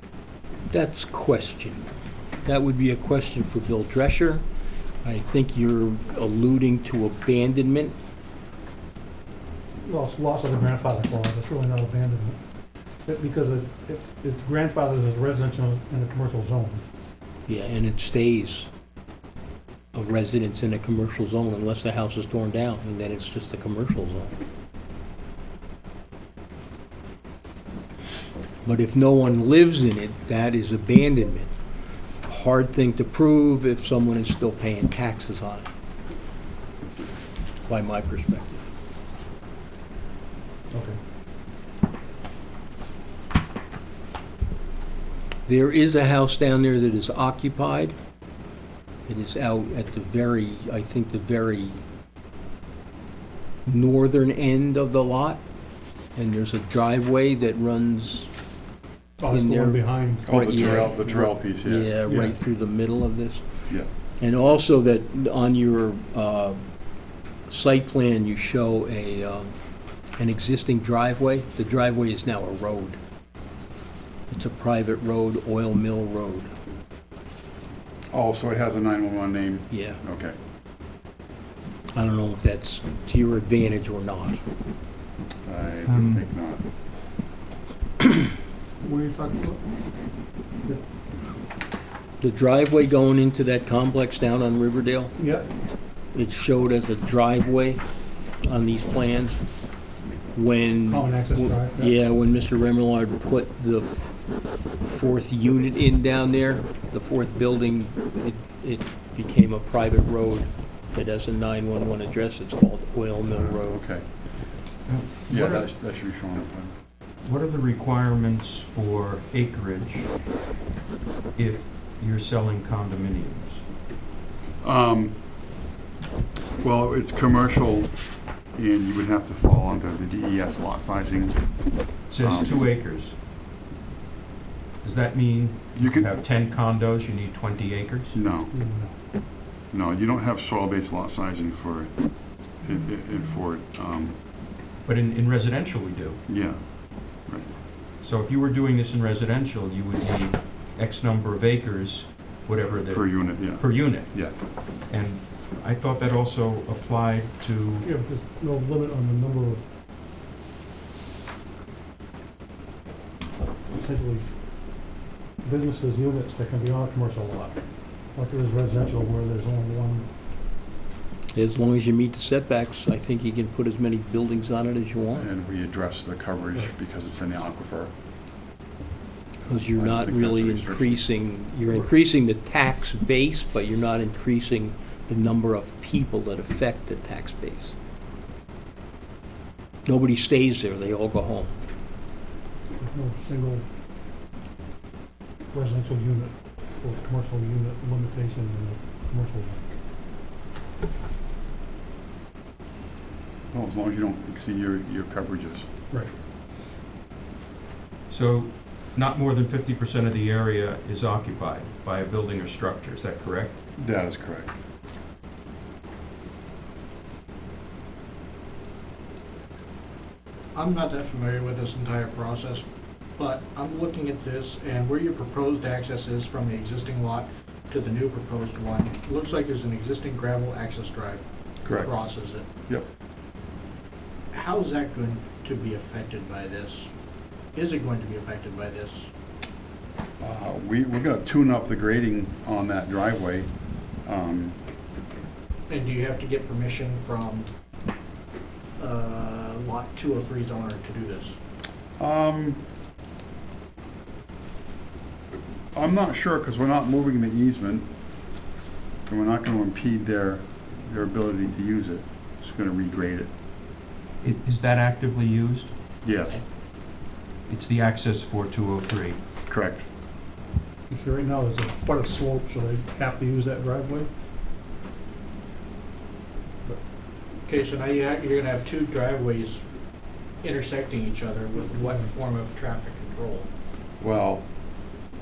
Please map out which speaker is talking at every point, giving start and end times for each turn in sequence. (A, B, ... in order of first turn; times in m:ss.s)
0:00.7-0:01.9 A
0:02.4-0:04.4 A
0:05.0-0:08.0 A
0:09.8-0:12.4 B
0:13.0-0:16.8 B
0:17.5-0:18.7 A
0:19.9-0:24.3 A
0:28.6-0:31.5 A
0:32.3-0:35.7 A
0:37.6-0:38.6 A
0:40.7-0:41.0 B
0:45.5-0:48.0 A
0:49.0-0:51.8 A
0:53.7-0:55.4 A
0:56.2-0:58.3 A
0:59.2-1:00.6 B
0:59.3-1:03.4 A
1:00.3-1:02.0 C
1:02.0-1:02.4 B
1:04.2-1:06.6 A
1:07.5-1:09.6 A
1:10.2-1:13.0 A
1:14.3-1:16.5 A
1:18.1-1:20.4 C
1:19.7-1:20.0 A
1:21.9-1:24.4 A
1:25.4-1:26.6 C
1:25.9-1:26.2 D
1:28.8-1:29.6 B
1:32.2-1:35.1 A
1:35.2-1:35.5 B
1:36.1-1:37.8 A
1:38.4-1:39.4 A
1:40.3-1:43.9 A
1:40.9-1:42.0 B
1:44.8-1:53.8 A
1:53.2-1:54.1 C
1:54.9-1:55.7 D
1:55.3-1:56.8 C
1:57.2-2:00.2 D
2:01.4-2:03.6 D
2:04.6-2:05.2 C
2:06.6-2:08.0 C
2:08.5-2:11.4 C
2:12.1-2:13.2 D
2:12.2-2:12.6 C
2:14.8-2:18.2 D
2:15.8-2:16.1 C
2:18.1-2:18.5 C
2:18.5-2:18.9 B
2:19.7-2:24.2 C
2:24.8-2:26.2 D
2:26.3-2:27.5 C
2:28.0-2:37.9 D
2:32.9-2:34.4 C
2:37.8-2:39.7 B
2:43.7-2:44.3 B
2:45.4-2:50.1 B
2:51.3-2:55.3 A
2:55.2-2:57.9 C
2:59.5-3:01.1 C
2:59.5-3:07.8 A
3:09.9-3:11.5 A
3:12.8-3:13.7 B
3:15.5-3:19.6 B
3:23.5-3:25.7 C
3:28.1-3:33.6 D
3:33.8-3:34.5 C
3:40.5-3:52.5 E
3:51.6-3:51.9 C
3:54.3-3:56.9 E
3:57.5-3:59.1 E
4:00.2-4:04.6 C
4:05.7-4:07.5 E
4:08.8-4:11.4 E
4:12.0-4:12.6 C
4:15.7-4:17.9 C
4:19.1-4:23.3 C
4:24.2-4:25.7 D
4:26.0-4:26.4 C
4:27.5-4:29.2 D
4:29.5-4:29.9 C
4:30.9-4:34.1 B
4:37.5-4:39.6 E
4:40.4-4:43.5 E
4:44.0-4:44.5 C